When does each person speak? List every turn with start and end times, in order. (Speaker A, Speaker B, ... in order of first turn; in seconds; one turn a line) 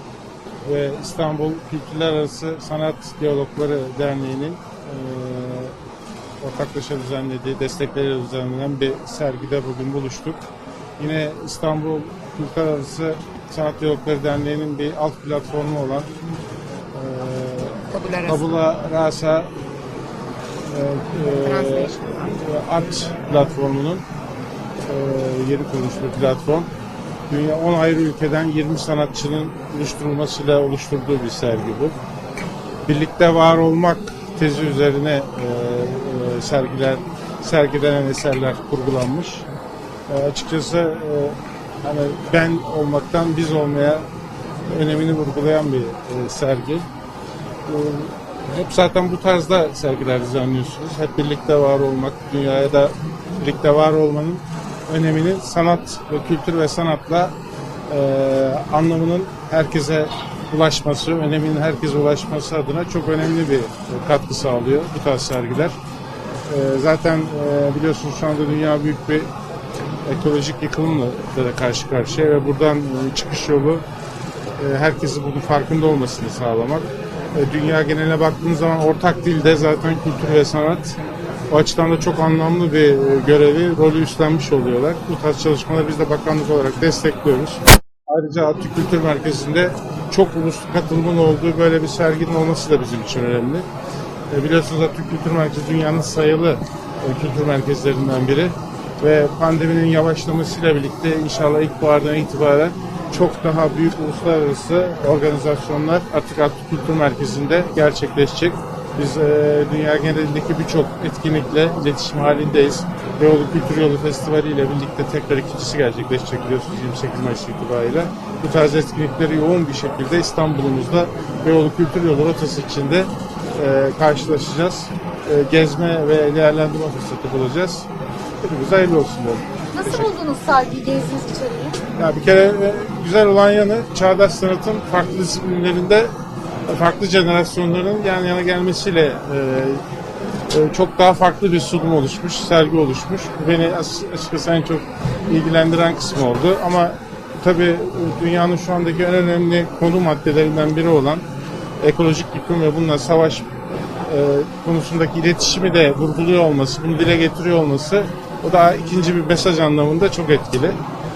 Speaker A: 0.6-5.8
Speaker A: 6.4-10.4
Speaker A: 11.0-16.1
Speaker A: 16.9-19.5
Speaker B: 17.9-18.2
Speaker A: 20.7-24.0
Speaker B: 21.7-22.1
Speaker A: 24.9-26.7
Speaker A: 27.3-32.0
Speaker A: 32.9-39.5
Speaker A: 40.1-44.1
Speaker A: 44.7-46.9
Speaker A: 47.7-57.3
Speaker A: 57.9-65.8
Speaker A: 66.5-69.3
Speaker A: 70.0-73.8
Speaker A: 74.6-81.0
Speaker A: 81.5-93.7
Speaker A: 94.3-127.9
Speaker A: 128.4-130.1
Speaker B: 129.7-131.8
Speaker A: 132.0-136.1
Speaker A: 136.7-139.8
Speaker A: 140.5-151.2
Speaker A: 151.8-153.5
Speaker A: 154.1-160.8